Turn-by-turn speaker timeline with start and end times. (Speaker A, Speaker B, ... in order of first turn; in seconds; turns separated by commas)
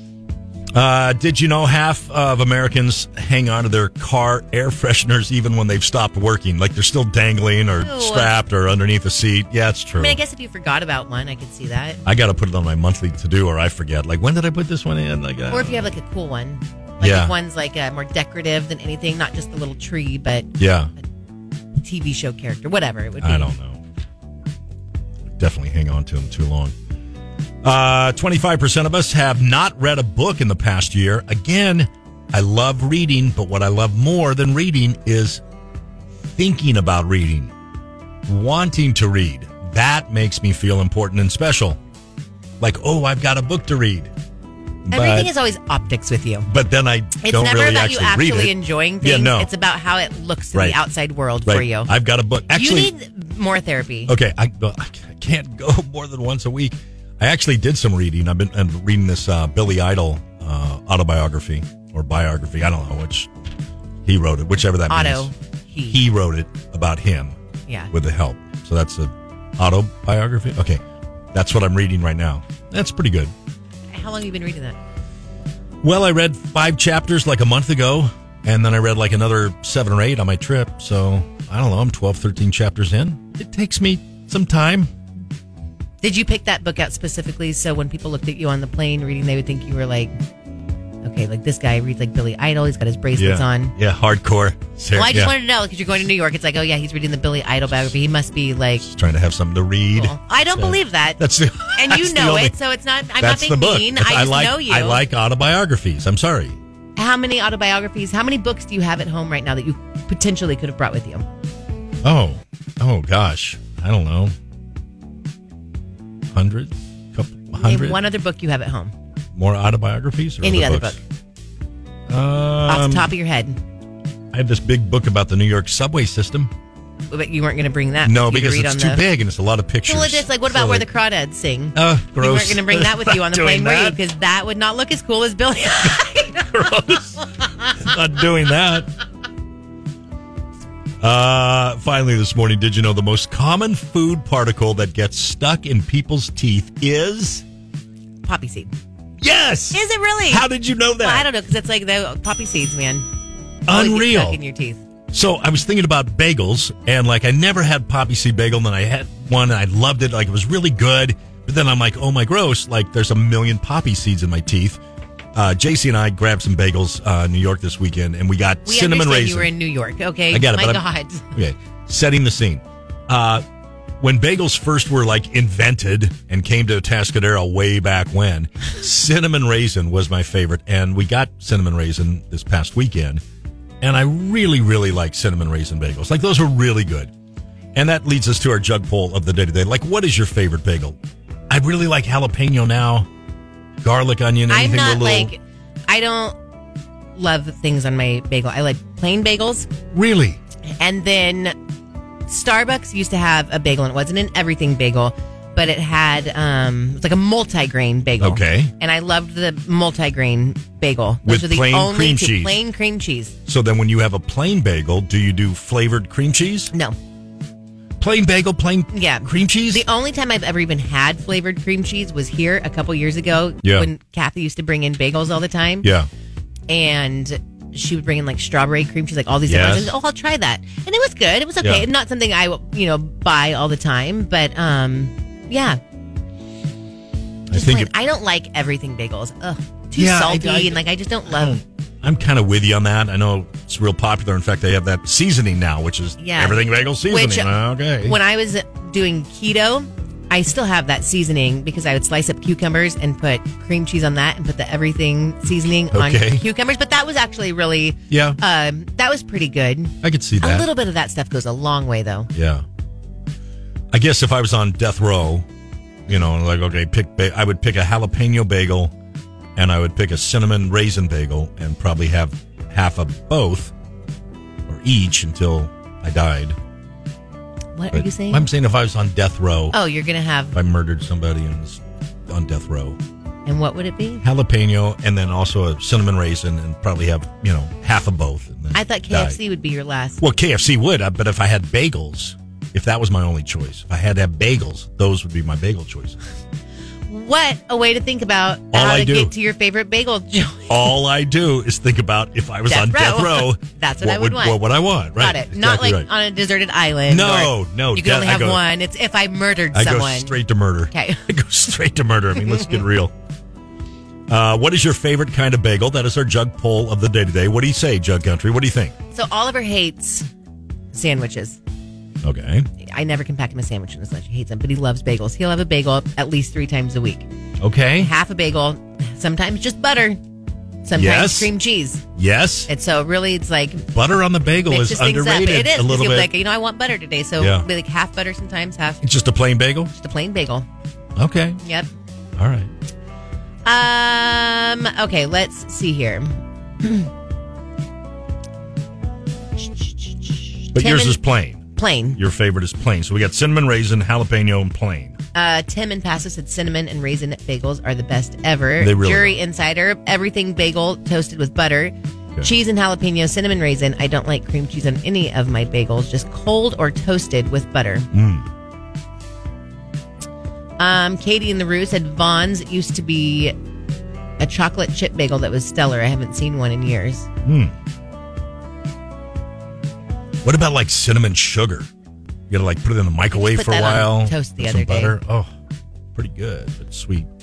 Speaker A: 0.7-10.2, Speaker B: 7.7-8.3, Speaker B: 10.0-12.0, Speaker A: 12.0-15.9, Speaker B: 15.5-20.5, Speaker A: 17.0-17.3, Speaker A: 20.6-20.9, Speaker B: 21.8-23.5, Speaker A: 23.2-23.8, Speaker A: 25.3-26.7, Speaker A: 27.6-35.4, Speaker A: 36.4-37.5, Speaker A: 38.2-41.8, Speaker A: 42.6-44.1, Speaker A: 44.9-45.3, Speaker B: 44.9-46.5, Speaker A: 46.5-49.5, Speaker B: 47.2-51.9, Speaker A: 50.5-50.8, Speaker A: 51.4-52.9, Speaker B: 52.5-54.1, Speaker A: 54.1-63.3, Speaker A: 64.0-65.3, Speaker B: 64.9-66.0, Speaker A: 65.9-67.3, Speaker A: 67.9-70.8, Speaker A: 71.3-73.3, Speaker B: 73.9-74.8, Speaker A: 75.8-84.9, Speaker B: 86.0-90.1, Speaker B: 91.0-93.7, Speaker A: 93.2-95.3, Speaker B: 94.9-98.8, Speaker A: 98.8-102.5, Speaker B: 99.9-101.2, Speaker B: 101.7-105.0, Speaker A: 103.2-106.6, Speaker B: 107.0-111.2, Speaker A: 112.0-114.3, Speaker A: 116.3-118.0, Speaker B: 117.6-118.9, Speaker A: 119.3-121.0, Speaker B: 120.4-121.0, Speaker A: 122.1-123.1, Speaker B: 122.7-123.6, Speaker A: 124.3-126.5, Speaker B: 127.1-129.0, Speaker A: 128.0-130.8, Speaker B: 129.9-136.7, Speaker A: 131.7-134.0, Speaker A: 135.8-138.9, Speaker A: 141.0-147.4, Speaker B: 148.2-148.7, Speaker A: 149.2-151.3, Speaker B: 149.7-150.4, Speaker B: 151.0-153.0, Speaker A: 153.7-154.4, Speaker B: 153.7-154.8, Speaker A: 155.1-164.8, Speaker A: 165.3-169.5, Speaker B: 168.7-171.3, Speaker A: 170.3-173.4, Speaker A: 174.0-183.2, Speaker A: 183.8-187.1, Speaker A: 187.7-191.0, Speaker A: 191.5-193.1, Speaker A: 193.8-195.3, Speaker B: 194.5-196.3, Speaker B: 197.2-199.7, Speaker A: 199.9-200.4, Speaker B: 200.8-201.5, Speaker B: 202.3-213.3, Speaker A: 208.2-208.7, Speaker A: 211.2-212.6, Speaker A: 213.5-216.7, Speaker A: 218.0-219.8, Speaker B: 218.9-225.9, Speaker A: 223.6-223.9, Speaker A: 225.8-226.1, Speaker B: 226.7-235.8, Speaker A: 229.5-229.9, Speaker A: 231.6-231.8, Speaker A: 237.5-237.9, Speaker B: 237.5-241.6, Speaker A: 239.9-248.2, Speaker B: 246.2-247.5, Speaker B: 248.0-262.3, Speaker A: 255.9-256.4, Speaker A: 258.1-258.4, Speaker A: 260.0-260.7, Speaker A: 262.3-262.6, Speaker A: 263.9-265.4, Speaker A: 266.1-268.9, Speaker A: 269.6-273.7, Speaker A: 274.7-276.6, Speaker B: 277.7-278.5, Speaker A: 277.9-279.8, Speaker B: 279.7-280.5, Speaker A: 280.5-283.0, Speaker B: 283.4-284.2, Speaker A: 284.2-289.4, Speaker B: 288.7-290.2, Speaker A: 290.2-296.2, Speaker B: 297.1-300.9, Speaker A: 298.7-299.3, Speaker A: 300.7-306.1, Speaker B: 302.7-304.6, Speaker B: 305.2-310.3, Speaker A: 307.1-308.6, Speaker A: 309.7-313.1, Speaker B: 310.9-311.2, Speaker A: 314.3-318.9, Speaker B: 319.1-320.3, Speaker B: 320.9-321.6, Speaker A: 322.2-322.6, Speaker B: 322.9-327.2, Speaker A: 327.6-328.1, Speaker B: 328.0-330.2, Speaker B: 330.8-332.0, Speaker A: 330.9-331.5, Speaker A: 332.1-332.7, Speaker B: 332.7-333.9, Speaker A: 333.9-336.3, Speaker B: 334.7-339.0, Speaker A: 337.4-337.6, Speaker A: 339.0-339.9, Speaker B: 339.9-340.6, Speaker A: 341.2-341.6, Speaker B: 341.6-341.9, Speaker A: 342.4-342.7, Speaker B: 343.6-347.1, Speaker B: 350.7-351.2, Speaker A: 350.7-351.6, Speaker B: 351.8-352.2, Speaker A: 352.1-355.2, Speaker B: 355.3-368.1, Speaker A: 358.8-359.4, Speaker A: 368.1-368.4, Speaker B: 370.8-373.5, Speaker B: 374.4-377.3, Speaker A: 377.4-377.7, Speaker A: 380.4-381.9, Speaker A: 382.5-385.5, Speaker B: 383.3-385.1, Speaker A: 386.1-387.3